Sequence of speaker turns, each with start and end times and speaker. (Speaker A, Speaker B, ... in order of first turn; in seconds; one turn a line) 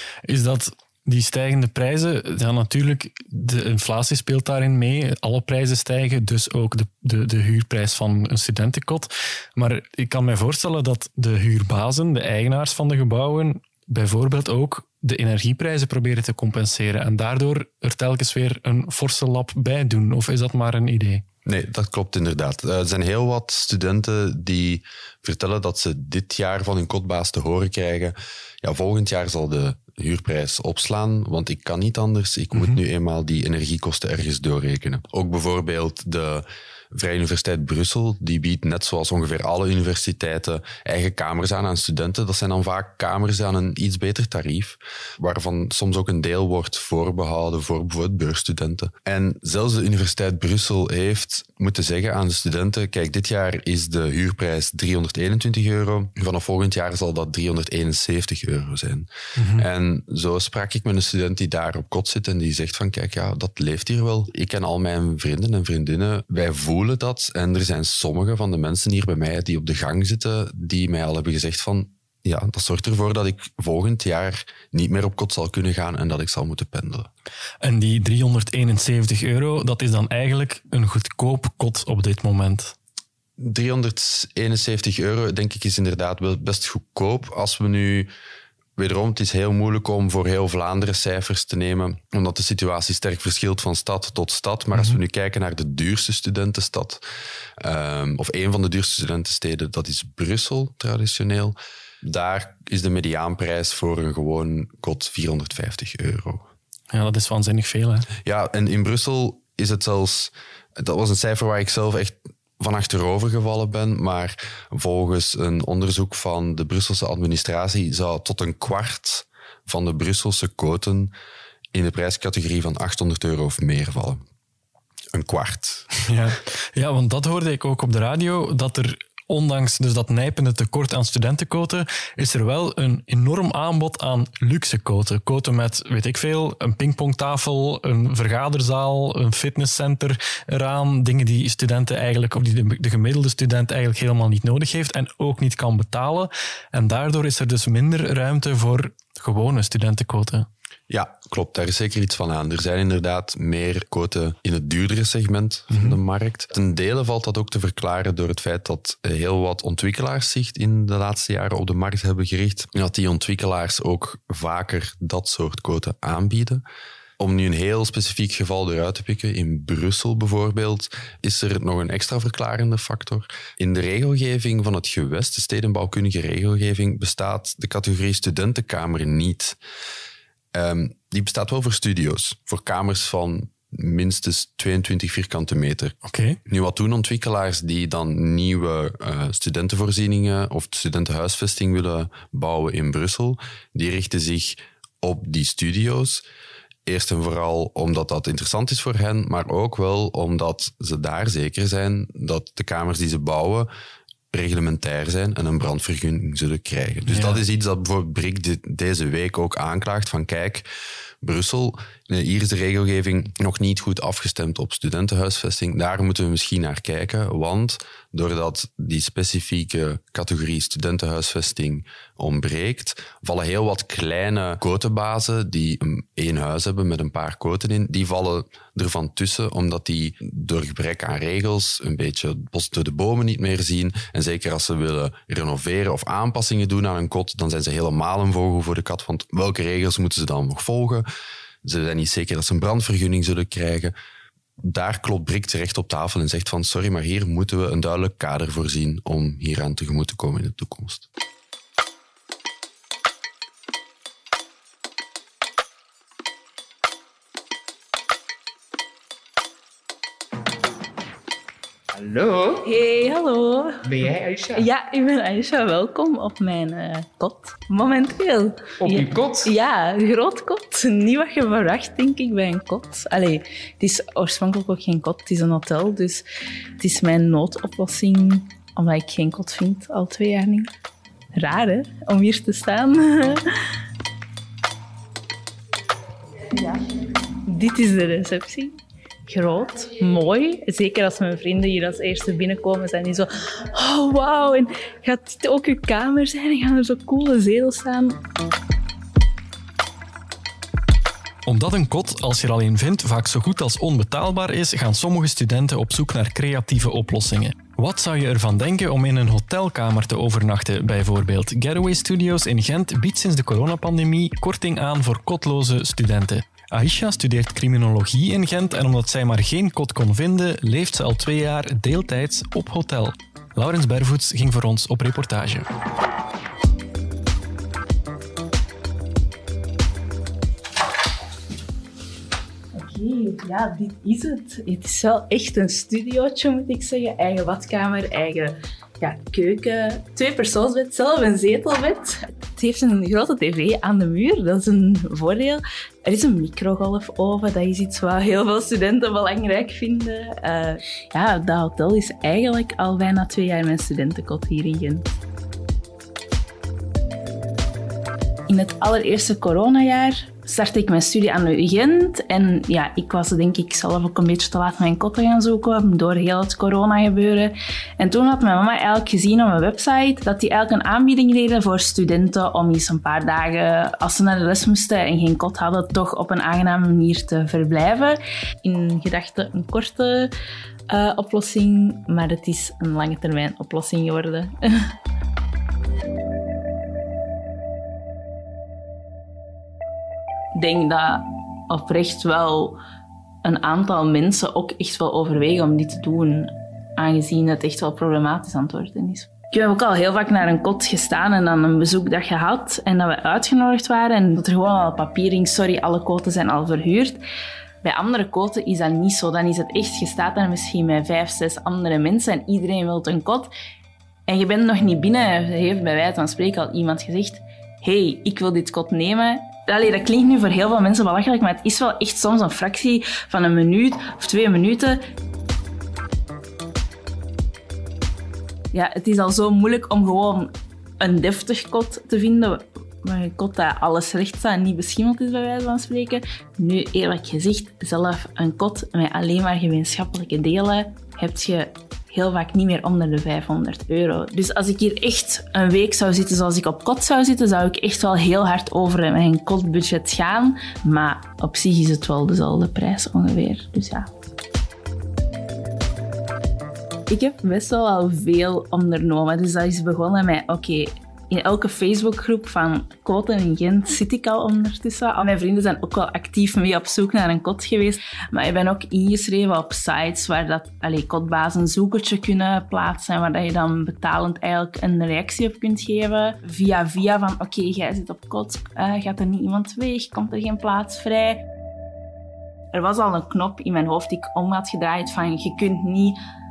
Speaker A: 0.2-21.2
Speaker B: 21.4-77.1
Speaker A: 32.5-32.8
Speaker A: 59.4-59.7
Speaker A: 77.6-82.7
Speaker B: 83.4-88.1
Speaker B: 88.8-97.0
Speaker A: 94.7-95.0
Speaker B: 97.6-106.5
Speaker A: 106.9-108.1
Speaker B: 108.2-121.1
Speaker B: 121.7-124.2
Speaker B: 125.1-125.9
Speaker A: 125.9-150.5
Speaker B: 150.9-166.6
Speaker A: 155.7-156.0
Speaker B: 167.2-179.6
Speaker B: 180.5-185.9
Speaker A: 186.0-186.4
Speaker B: 186.5-196.2
Speaker B: 196.8-203.7
Speaker B: 204.3-210.7
Speaker A: 207.1-207.4
Speaker B: 211.2-241.1
Speaker B: 241.6-243.9
Speaker B: 244.6-251.1
Speaker C: 261.9-262.6
Speaker D: 262.6-264.0
Speaker C: 263.8-264.6
Speaker D: 264.5-276.2
Speaker C: 268.8-269.5
Speaker D: 276.8-280.7
Speaker D: 281.3-283.4
Speaker D: 286.6-286.9
Speaker D: 287.4-288.7
Speaker D: 289.3-298.2
Speaker A: 301.4-325.7
Speaker D: 332.7-355.1
Speaker D: 358.5-380.3
Speaker D: 380.9-384.9
Speaker D: 390.6-392.8
Speaker D: 393.4-407.2
Speaker D: 407.8-413.5
Speaker D: 414.3-425.0
Speaker D: 428.7-430.5
Speaker D: 431.0-454.1
Speaker D: 457.1-481.4
Speaker D: 482.7-486.2